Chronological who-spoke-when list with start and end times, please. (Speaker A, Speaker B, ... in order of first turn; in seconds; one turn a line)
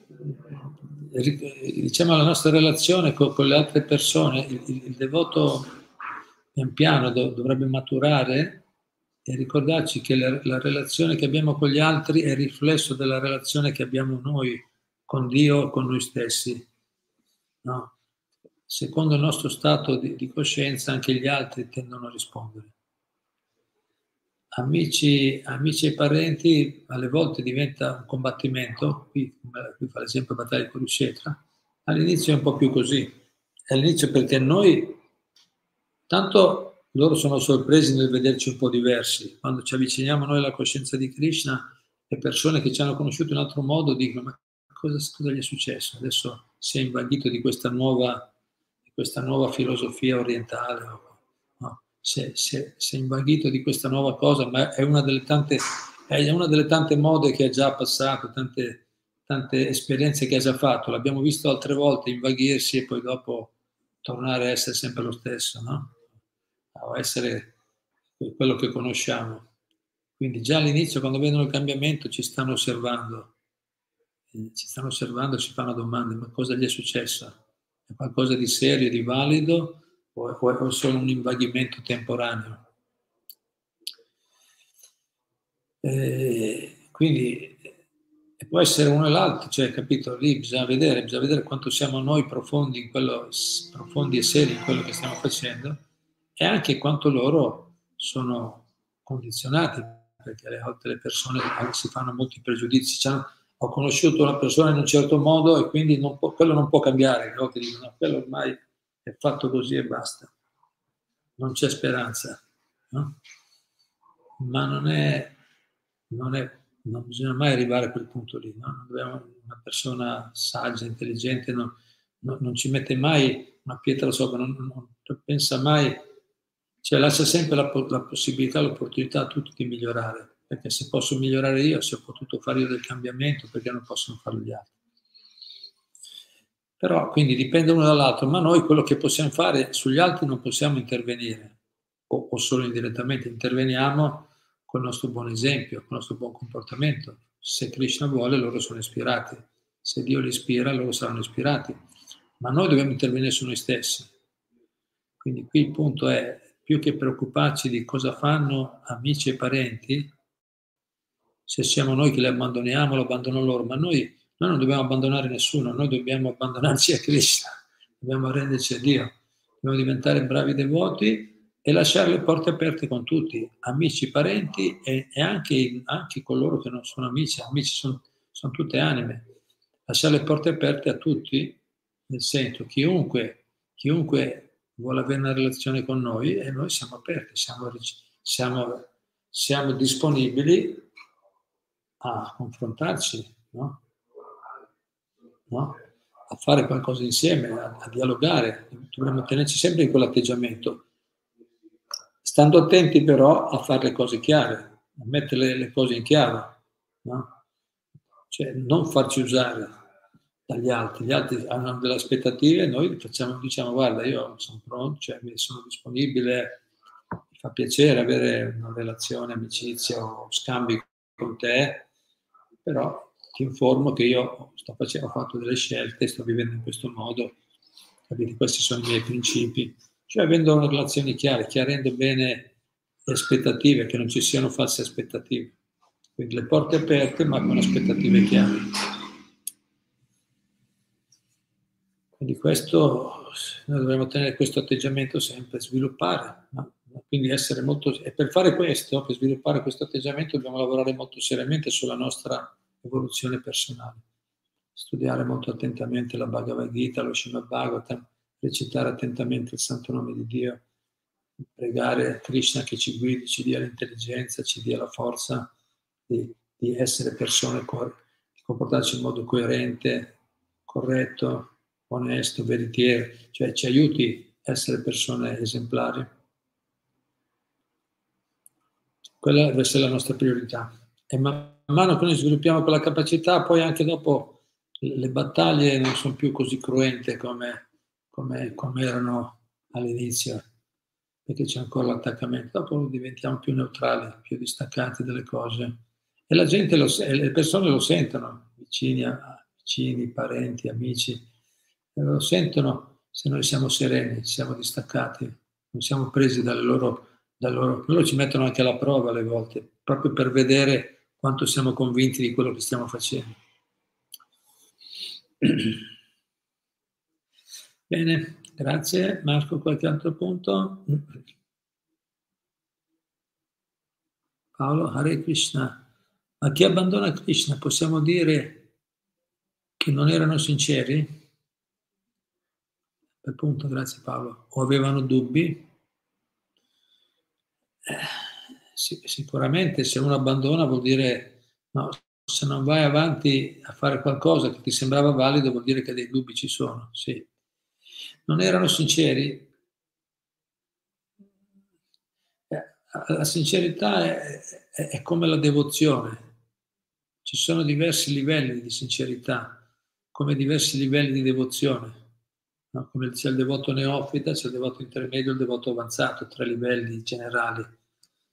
Speaker A: 0.2-5.7
Speaker A: 6.5-8.7
Speaker A: 9.2-16.7
Speaker A: 17.6-17.9
Speaker A: 18.7-22.7
Speaker A: 24.6-33.2
Speaker A: 33.7-35.0
Speaker A: 36.1-48.3
Speaker A: 48.9-66.0
Speaker A: 66.7-67.5
Speaker A: 68.2-69.5
Speaker A: 70.2-73.3
Speaker A: 74.3-77.4
Speaker A: 77.9-82.6
Speaker A: 85.8-87.8
Speaker A: 88.4-95.8
Speaker A: 96.4-110.3
Speaker A: 111.4-113.2
Speaker A: 114.4-115.4
Speaker A: 116.1-126.0
Speaker A: 126.8-134.8
Speaker A: 136.8-141.6
Speaker A: 142.1-151.8
Speaker A: 152.4-154.1
Speaker A: 155.2-160.1
Speaker A: 161.5-179.3
Speaker A: 179.9-190.9
Speaker A: 192.0-193.8
Speaker A: 195.5-195.8
Speaker A: 196.3-200.9
Speaker A: 202.2-207.3
Speaker A: 208.3-209.7
Speaker A: 210.5-216.6
Speaker A: 217.3-221.9
Speaker A: 222.7-227.4
Speaker A: 228.1-232.5
Speaker A: 233.1-235.6
Speaker A: 236.2-239.0
Speaker A: 242.2-254.0
Speaker A: 254.8-260.6
Speaker A: 261.6-265.5
Speaker A: 266.1-270.2
Speaker A: 270.7-276.1
Speaker A: 279.2-290.4
Speaker A: 291.3-301.2
Speaker A: 302.0-313.4
Speaker A: 315.4-315.8
Speaker A: 317.9-321.1
Speaker A: 324.6-325.9
Speaker A: 326.4-328.7
Speaker A: 329.8-331.1
Speaker A: 333.2-335.7
Speaker A: 337.9-347.3
Speaker A: 348.3-349.5
Speaker A: 352.5-356.3
Speaker A: 357.2-362.1
Speaker A: 362.7-367.7